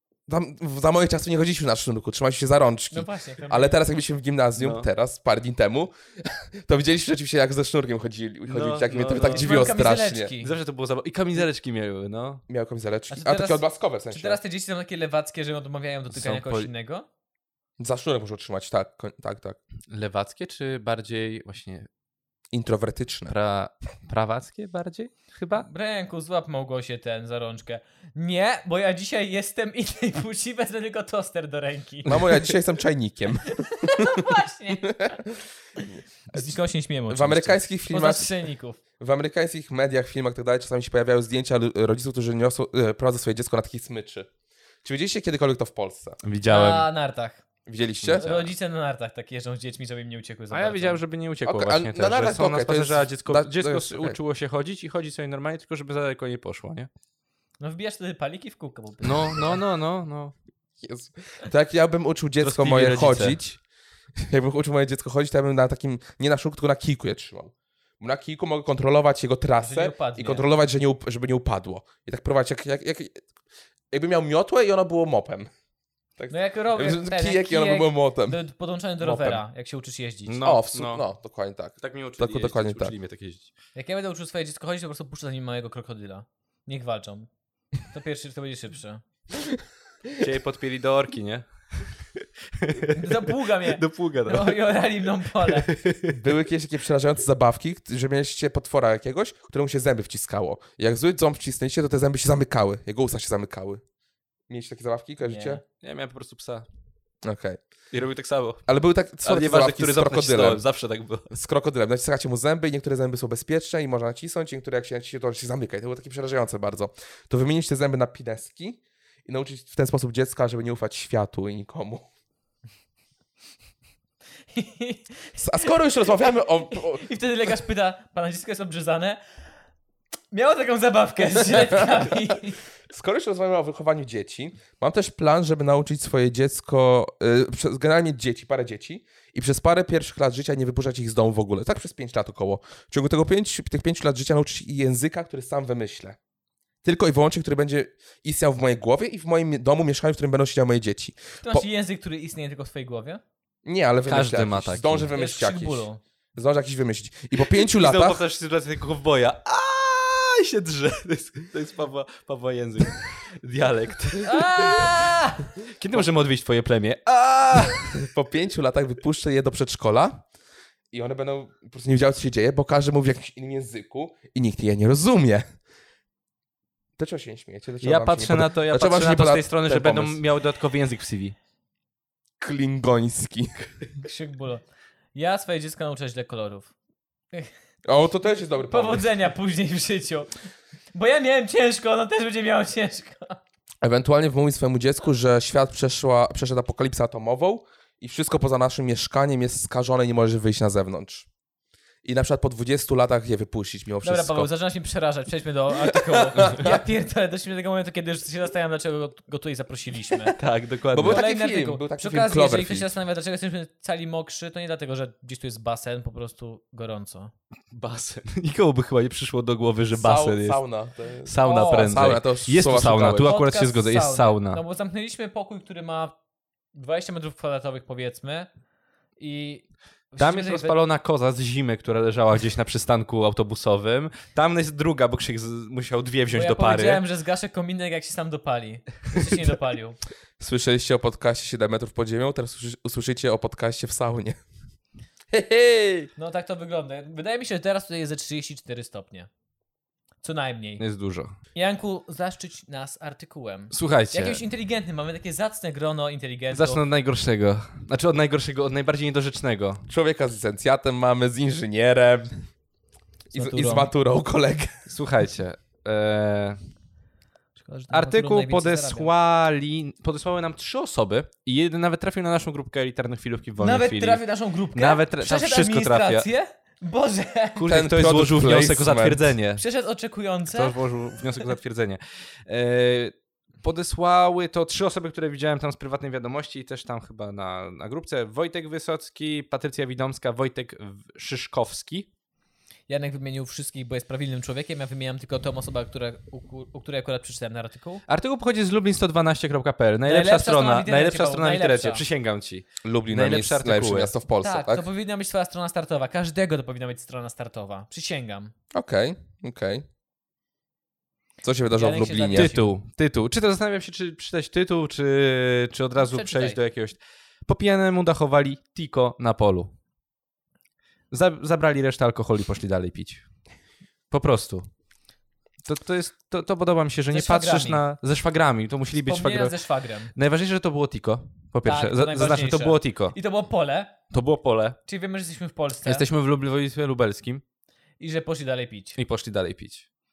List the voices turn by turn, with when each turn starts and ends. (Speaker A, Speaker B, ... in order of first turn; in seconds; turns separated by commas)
Speaker A: 0.3-10.3, Speaker B: 2.9-3.8, Speaker C: 4.6-4.9, Speaker C: 8.5-9.8, Speaker B: 9.1-10.5, Speaker C: 10.4-12.4, Speaker A: 12.5-14.4, Speaker B: 13.1-17.1, Speaker C: 16.1-16.7, Speaker A: 17.8-19.6, Speaker C: 19.9-21.9, Speaker A: 22.5-23.3, Speaker C: 23.3-25.7, Speaker B: 25.6-32.3, Speaker A: 32.0-35.3, Speaker B: 33.5-35.2, Speaker B: 35.8-38.8, Speaker A: 37.1-38.3, Speaker A: 39.0-44.3, Speaker A: 44.8-46.2, Speaker C: 46.2-46.9, Speaker B: 46.5-47.4, Speaker A: 47.7-48.4, Speaker C: 48.0-48.5, Speaker B: 48.2-51.0, Speaker C: 50.5-56.9, Speaker A: 51.5-54.2, Speaker B: 57.6-59.6, Speaker C: 59.0-60.3, Speaker A: 60.8-63.6, Speaker C: 62.4-63.4, Speaker A: 64.2-73.2, Speaker B: 69.6-70.4, Speaker A: 73.9-75.5, Speaker A: 76.2-78.4, Speaker B: 76.3-80.4, Speaker A: 79.0-79.4, Speaker C: 80.2-81.0, Speaker A: 80.4-82.9, Speaker C: 81.8-83.5, Speaker B: 83.8-87.3, Speaker B: 87.9-89.0, Speaker C: 90.2-94.7, Speaker B: 93.0-95.7, Speaker C: 95.4-96.2, Speaker A: 96.1-103.8, Speaker A: 104.5-105.6, Speaker B: 105.2-105.6, Speaker C: 105.8-106.7, Speaker A: 107.2-107.6, Speaker C: 107.9-108.6, Speaker A: 108.7-110.6, Speaker C: 109.2-111.3, Speaker A: 111.3-122.1, Speaker B: 124.5-129.2, Speaker A: 125.4-127.1, Speaker B: 130.3-132.6, Speaker A: 131.4-132.3, Speaker A: 132.9-146.2, Speaker A: 146.8-151.7, Speaker B: 151.4-153.2, Speaker A: 153.7-158.2, Speaker C: 154.1-155.1, Speaker B: 155.1-156.0, Speaker C: 157.5-165.1, Speaker B: 164.2-165.5, Speaker C: 165.8-167.9, Speaker A: 167.9-170.2, Speaker A: 170.9-175.5, Speaker A: 177.0-180.2, Speaker C: 177.8-181.3, Speaker A: 182.4-183.7, Speaker B: 184.0-184.6, Speaker B: 185.2-186.7, Speaker A: 187.9-189.1, Speaker B: 188.7-190.3, Speaker B: 190.9-193.4, Speaker A: 193.8-201.3, Speaker A: 202.0-204.5, Speaker B: 204.0-210.4, Speaker A: 205.8-206.8, Speaker C: 210.3-211.2, Speaker A: 210.9-212.9, Speaker B: 211.0-217.3, Speaker C: 217.7-220.6, Speaker A: 219.9-223.3, Speaker C: 221.2-224.6, Speaker B: 221.4-222.0, Speaker B: 223.2-226.2, Speaker B: 226.7-228.5, Speaker B: 229.2-230.8, Speaker C: 230.2-237.0, Speaker B: 236.3-240.0, Speaker A: 240.4-244.4, Speaker A: 245.3-246.1, Speaker B: 246.2-249.3, Speaker B: 250.2-250.8, Speaker C: 250.8-251.3, Speaker B: 251.6-256.8, Speaker C: 253.7-254.4, Speaker C: 256.5-259.8, Speaker A: 259.9-262.4, Speaker A: 263.3-264.7, Speaker B: 263.3-263.9, Speaker C: 264.9-266.6, Speaker B: 267.6-269.1, Speaker C: 267.9-274.2, Speaker B: 273.6-277.7, Speaker C: 274.7-276.3, Speaker C: 277.6-279.6, Speaker A: 277.7-279.3, Speaker B: 279.6-280.8, Speaker C: 280.5-292.1, Speaker B: 292.9-298.0, Speaker C: 298.1-304.1, Speaker B: 300.1-302.0, Speaker A: 302.8-304.9, Speaker B: 304.4-308.5, Speaker A: 308.7-309.9, Speaker A: 311.4-312.5, Speaker B: 311.7-312.7, Speaker C: 312.3-319.7, Speaker B: 316.0-316.6, Speaker C: 321.1-323.2, Speaker C: 324.1-324.7, Speaker C: 325.6-329.6, Speaker B: 327.1-327.8, Speaker B: 329.0-330.1, Speaker C: 330.1-333.1, Speaker B: 331.6-333.9, Speaker C: 334.1-334.8, Speaker B: 334.9-336.1, Speaker C: 335.9-337.4, Speaker B: 338.0-339.0, Speaker C: 339.0-339.9